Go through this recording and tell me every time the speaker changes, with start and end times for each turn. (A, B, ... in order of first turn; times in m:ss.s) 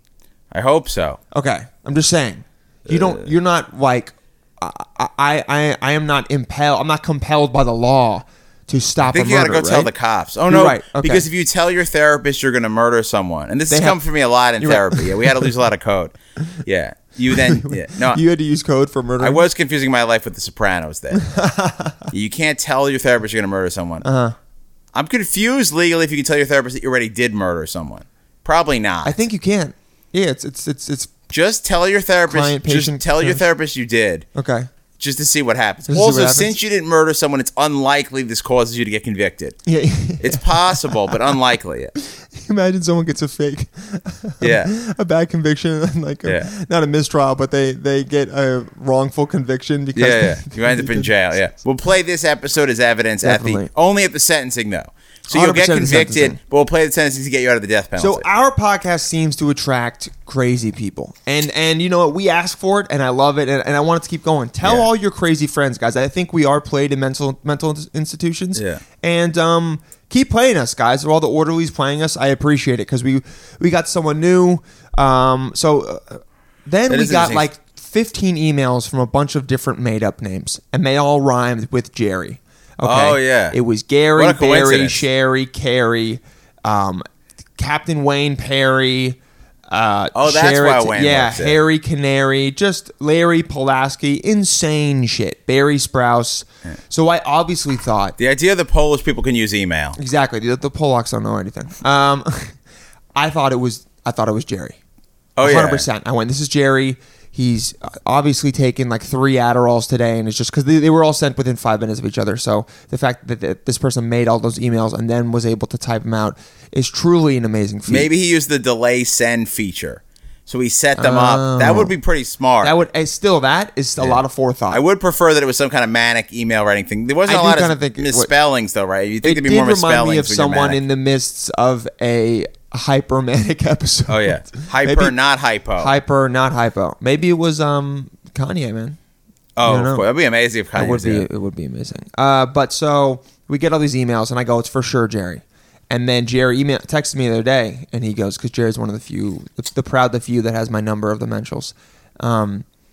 0:00.5-0:01.2 A
0:01.3-0:09.9 B
0:02.9-0:03.3 A
0:09.1-0:18.2 A
0:10.5-0:11.2 B
0:13.7-0:14.0 B
0:14.6-0:15.5 B
0:17.3-0:19.4 B
0:19.2-0:21.3 A
0:21.1-0:22.1 B
0:22.1-0:24.0 A
0:24.0-0:24.4 B
0:24.9-0:29.1 A
0:29.0-0:31.1 B
0:31.3-0:34.3 A
0:32.3-0:33.4 B
0:34.4-0:34.7 B
0:35.0-0:39.6 A
0:35.9-0:36.5 B
0:39.6-0:41.3 B
0:40.2-0:41.9 A
0:42.0-0:51.1 B
0:44.4-0:44.7 A
0:50.0-0:58.2 A
0:53.2-0:53.7 B
0:55.3-0:56.4 B
0:58.0-1:27.0 B
1:08.5-1:08.8 A
1:16.9-1:17.4 A
1:22.8-1:23.6 A
1:24.2-1:25.0 A
1:27.6-1:29.2 B
1:29.7-1:38.1 B
1:30.1-1:31.6 A
1:38.2-1:40.0 A
1:40.0-1:42.5 B
1:43.2-1:44.8 B
1:45.4-1:45.9 A
1:45.4-1:58.1 B
1:57.9-2:02.8 A
2:01.0-2:01.9 B
2:02.6-2:04.8 B
2:04.0-2:10.8 A
2:07.2-2:08.3 B
2:09.2-2:15.1 B
2:14.1-2:15.9 A
2:15.8-2:19.0 B
2:19.6-2:21.2 A
2:19.6-2:20.1 B
2:20.8-2:32.6 B